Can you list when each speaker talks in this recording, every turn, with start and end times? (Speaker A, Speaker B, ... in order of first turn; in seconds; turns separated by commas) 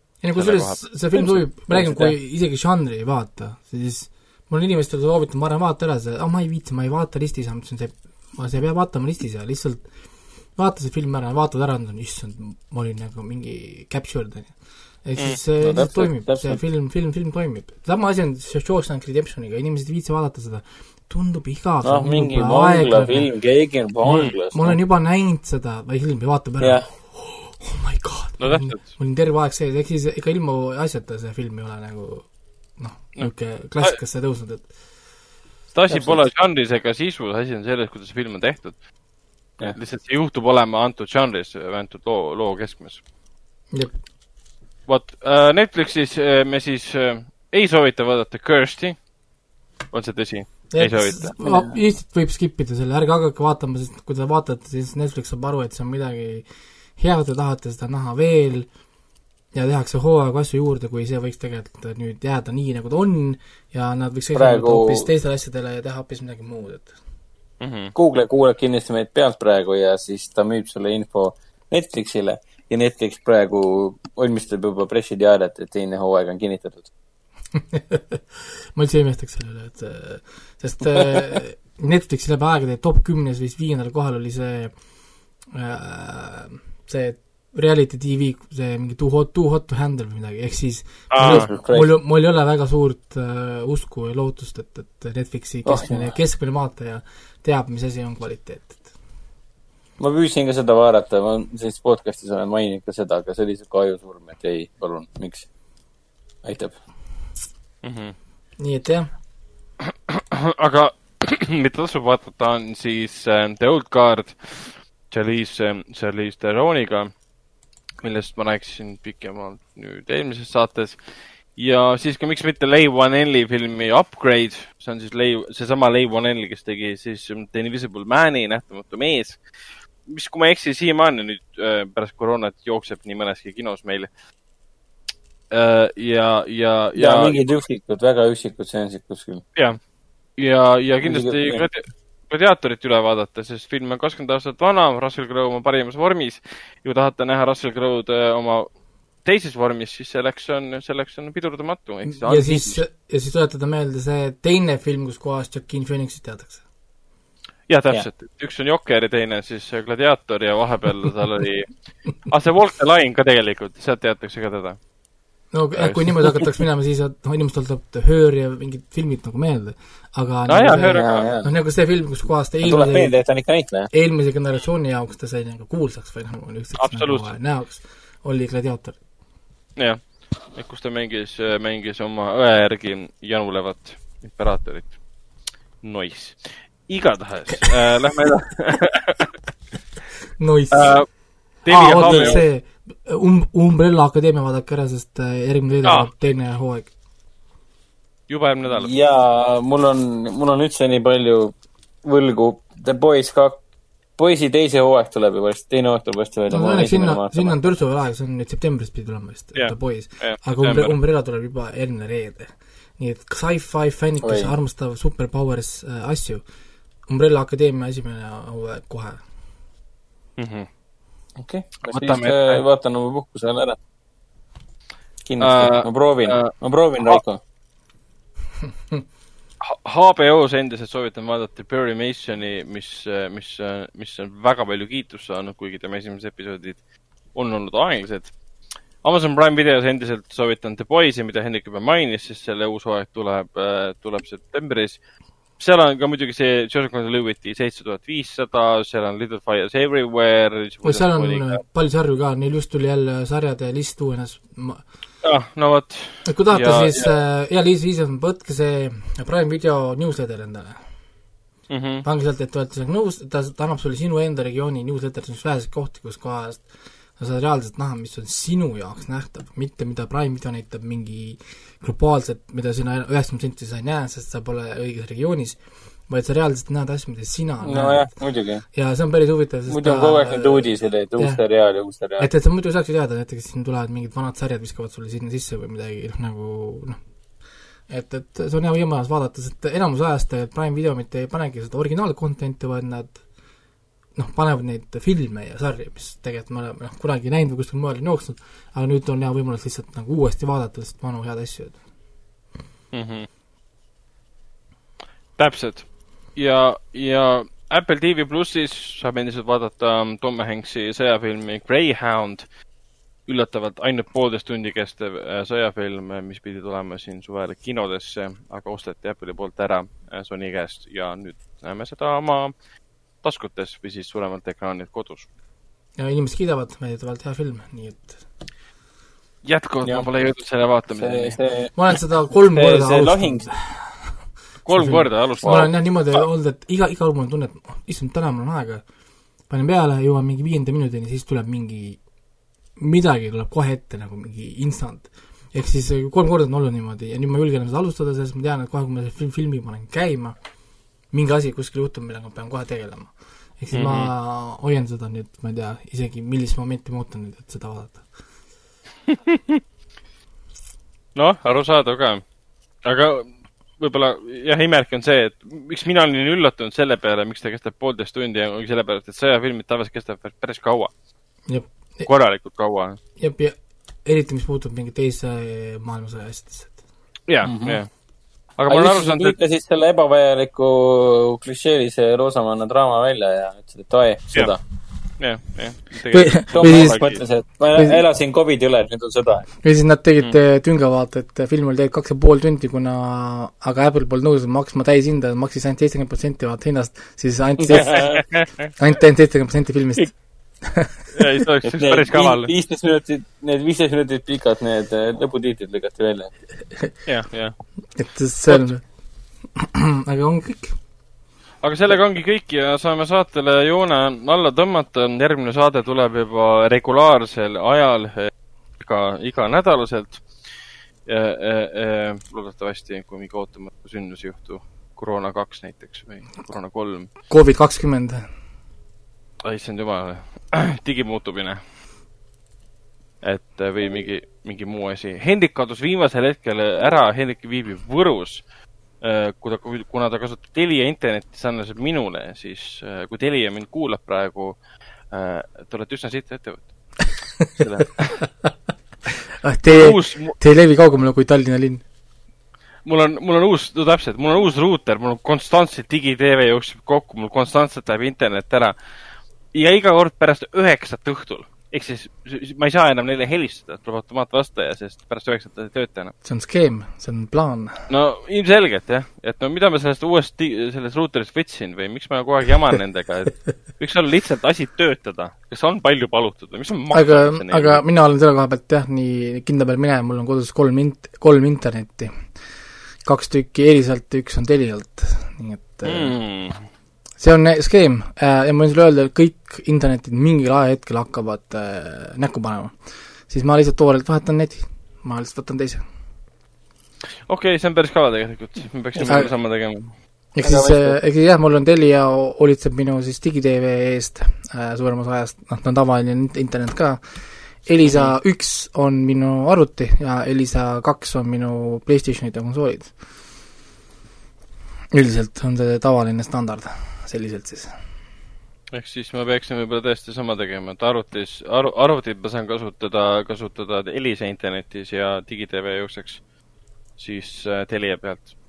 Speaker A: 0.2-9.9, Speaker B: 0.3-1.4, Speaker C: 1.2-2.1, Speaker A: 10.5-23.3, Speaker C: 15.6-16.6, Speaker C: 21.8-24.8, Speaker A: 24.1-34.7, Speaker B: 24.1-24.3, Speaker C: 26.6-26.9, Speaker B: 28.4-28.9, Speaker B: 33.1-34.0, Speaker B: 35.7-38.8, Speaker C: 35.9-36.2, Speaker B: 39.6-43.0, Speaker B: 44.9-49.0, Speaker B: 49.9-51.4, Speaker A: 50.7-56.4, Speaker C: 51.4-51.7, Speaker A: 57.0-58.7, Speaker A: 59.5-66.9, Speaker C: 64.3-65.1, Speaker B: 67.6-67.9, Speaker C: 67.9-76.9, Speaker A: 77.5-78.2, Speaker A: 78.7-84.8, Speaker A: 85.5-98.9, Speaker B: 91.1-91.5, Speaker C: 91.2-91.9, Speaker C: 95.6-96.1, Speaker C: 100.0-105.5, Speaker C: 106.4-106.7, Speaker B: 107.8-108.1, Speaker A: 108.6-109.1, Speaker B: 110.1-117.1, Speaker B: 118.0-121.0, Speaker B: 121.5-129.4, Speaker B: 130.1-134.1, Speaker B: 135.5-137.4, Speaker C: 136.9-139.4, Speaker B: 140.4-148.7, Speaker C: 141.0-141.6, Speaker B: 149.2-152.8, Speaker A: 152.1-156.6, Speaker B: 157.7-164.8, Speaker A: 165.5-173.1, Speaker B: 165.8-166.3, Speaker B: 170.5-171.2, Speaker C: 170.9-171.5, Speaker C: 172.6-173.9, Speaker A: 173.9-179.0, Speaker B: 176.8-177.3, Speaker B: 179.8-184.9, Speaker B: 185.8-189.3, Speaker A: 190.4-191.0, Speaker B: 190.7-191.1, Speaker B: 191.6-192.4, Speaker A: 191.7-196.9, Speaker C: 192.0-192.4, Speaker B: 198.3-198.9, Speaker C: 198.7-203.6, Speaker C: 204.2-207.5, Speaker A: 206.5-216.4, Speaker B: 209.5-210.9, Speaker C: 214.2-214.5, Speaker A: 217.1-219.2, Speaker B: 220.4-220.7, Speaker C: 221.4-223.8, Speaker B: 221.9-222.6, Speaker C: 225.2-227.4, Speaker B: 225.4-227.2, Speaker B: 229.6-236.8, Speaker B: 237.3-238.3, Speaker B: 239.0-245.0, Speaker B: 245.6-251.6, Speaker A: 250.8-254.8, Speaker B: 255.2-257.1, Speaker A: 256.2-260.8, Speaker B: 261.7-262.0, Speaker A: 262.0-278.1, Speaker C: 277.6-278.6, Speaker A: 278.7-281.4, Speaker C: 279.7-282.3, Speaker A: 282.2-287.0, Speaker A: 287.9-293.2, Speaker A: 294.1-301.8, Speaker B: 302.9-303.3, Speaker B: 305.4-312.4, Speaker B: 313.3-322.5, Speaker B: 323.2-325.3, Speaker A: 326.0-328.2, Speaker B: 329.4-331.4, Speaker C: 330.9-331.7, Speaker A: 331.8-334.1, Speaker C: 332.5-333.5, Speaker B: 334.6-335.7, Speaker A: 334.7-338.8, Speaker C: 335.4-335.7, Speaker A: 339.5-342.0, Speaker A: 342.8-350.4, Speaker A: 351.1-358.0, Speaker B: 353.7-354.1, Speaker B: 359.1-359.4, Speaker B: 361.1-362.2, Speaker B: 362.8-370.9, Speaker A: 371.5-372.1, Speaker B: 372.1-373.0, Speaker A: 373.2-376.8, Speaker B: 377.3-377.9, Speaker C: 377.4-377.8, Speaker B: 378.6-379.4, Speaker C: 378.7-384.6, Speaker B: 385.2-387.2, Speaker A: 386.1-387.0, Speaker C: 386.5-389.5, Speaker A: 387.7-388.0, Speaker A: 389.6-398.0, Speaker C: 397.7-398.2, Speaker B: 397.8-398.5, Speaker A: 398.8-400.9, Speaker B: 401.1-402.5, Speaker C: 401.6-406.3, Speaker B: 407.1-407.6, Speaker A: 407.9-408.8, Speaker A: 409.6-410.8, Speaker B: 411.6-420.2, Speaker B: 421.1-427.1, Speaker A: 427.3-428.3, Speaker B: 429.4-431.6, Speaker B: 433.2-438.4, Speaker B: 439.0-444.6, Speaker B: 445.1-448.4, Speaker A: 449.4-451.8, Speaker B: 449.6-450.4, Speaker B: 452.9-458.7, Speaker B: 459.5-466.1, Speaker A: 466.2-467.8, Speaker B: 467.9-477.8, Speaker A: 476.9-482.1, Speaker A: 483.0-486.2, Speaker B: 485.8-486.6, Speaker A: 487.2-495.8, Speaker B: 497.3-499.9, Speaker C: 498.9-499.3, Speaker A: 500.4-507.0, Speaker C: 500.4-501.0, Speaker A: 507.6-512.9, Speaker B: 507.8-508.1, Speaker A: 514.9-517.7, Speaker B: 518.7-526.2, Speaker B: 527.0-528.3